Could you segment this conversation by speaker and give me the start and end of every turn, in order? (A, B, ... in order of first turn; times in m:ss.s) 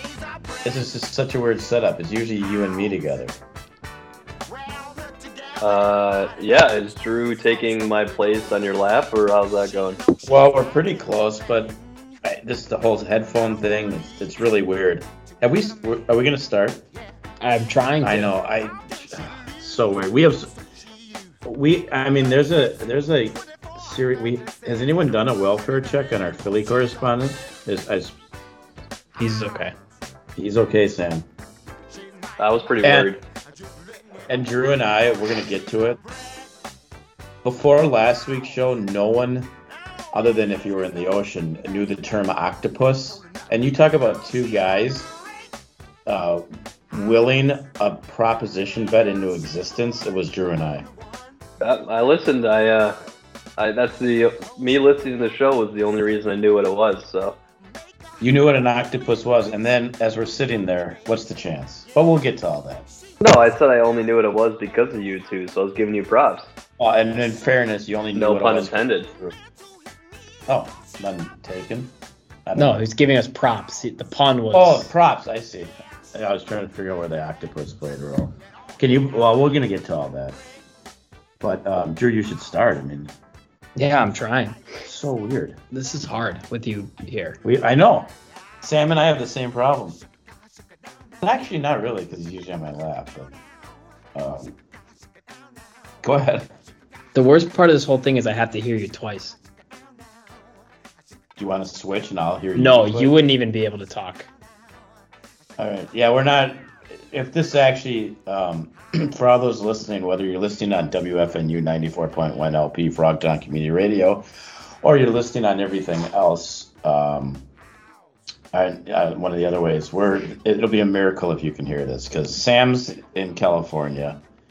0:00.6-0:03.3 A
0:05.6-0:10.0 B
0:10.2-0:16.8 A
0:17.4-0:18.3 C
0:18.0-0:20.6 A
0:21.4-0:28.2 A
0:29.2-0:29.7 C
0:30.4-0:31.3 A
0:32.4-0:33.2 B
0:32.8-0:33.1 A
0:34.3-0:36.0 A
0:37.4-0:39.5 A
0:40.1-0:45.1 A
0:46.0-0:50.9 A
0:51.6-0:53.0 B
0:53.6-0:57.4 B
0:58.2-1:02.9 A
1:03.2-1:06.5 B
1:06.8-1:09.4 A
1:08.1-1:09.1 B
1:10.5-1:11.9 A
1:12.4-1:12.8 A
1:12.5-1:14.9 C
1:14.5-1:20.4 A
1:21.4-1:23.1 A
1:23.8-1:24.6 C
1:24.8-1:25.6 A
1:25.7-1:27.4 C
1:27.4-1:28.1 A
1:28.6-1:30.0 A
1:31.2-1:33.3 A
1:34.1-1:34.6 A
1:36.0-1:36.5 A
1:37.1-1:39.4 C
1:41.4-1:43.2 A
1:42.5-1:44.3 C
1:45.6-1:57.4 A
1:58.5-2:04.2 A